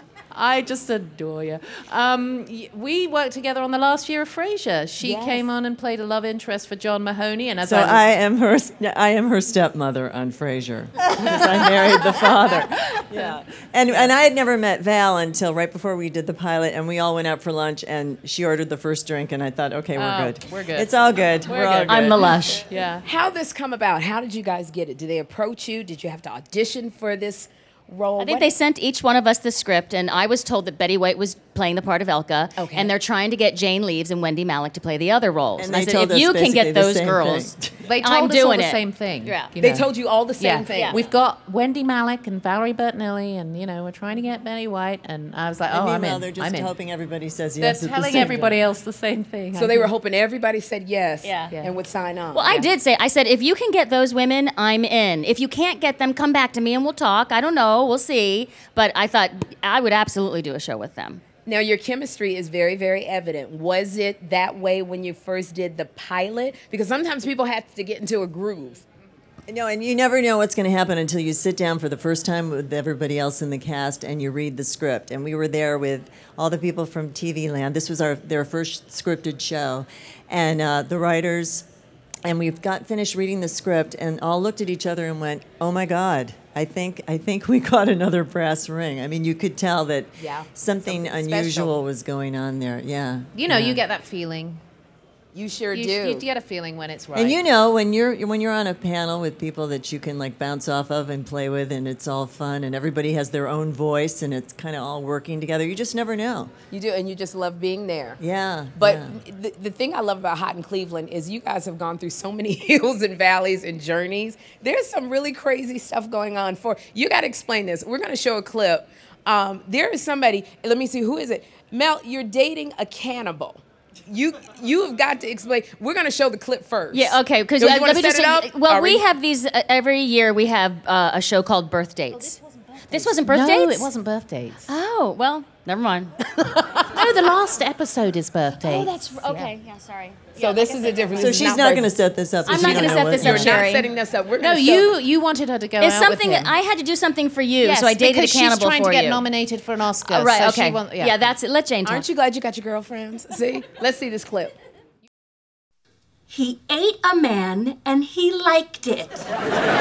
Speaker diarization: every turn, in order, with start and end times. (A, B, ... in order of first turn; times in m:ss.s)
0:00.3-0:08.0 A
0:05.0-0:05.5 B
0:07.6-0:22.4 C
0:20.0-0:23.0 A
0:21.9-0:22.6 D
0:23.0-0:28.5 B
0:28.2-0:39.5 D
0:32.6-0:32.9 B
0:35.6-0:37.7 C
0:37.8-0:46.7 A
0:39.6-0:41.0 B
0:40.7-0:41.0 D
0:45.7-0:48.6 C
0:47.6-0:49.9 A
0:49.5-0:52.7 B
0:51.2-0:51.5 D
0:52.3-1:01.2 D
1:01.4-1:08.8 B
1:09.5-1:21.7 C
1:22.2-1:33.8 C
1:30.2-1:31.7 B
1:33.3-1:34.6 A
1:35.3-1:36.2 B
1:35.7-1:37.4 A
1:37.1-1:46.5 C
1:46.7-1:48.2 B
1:48.2-1:49.2 C
1:48.8-2:09.0 B
2:06.9-2:13.9 D
2:13.1-2:14.7 A
2:14.7-2:16.1 D
2:16.8-2:19.5 A
2:18.6-2:21.3 D
2:20.4-2:21.9 B
2:21.2-2:23.7 C
2:22.4-2:23.9 D
2:22.4-2:25.0 B
2:24.4-2:26.5 A
2:25.8-2:29.2 D
2:27.6-2:31.2 A
2:30.1-2:32.0 D
2:31.8-2:34.5 B
2:36.3-2:39.2 E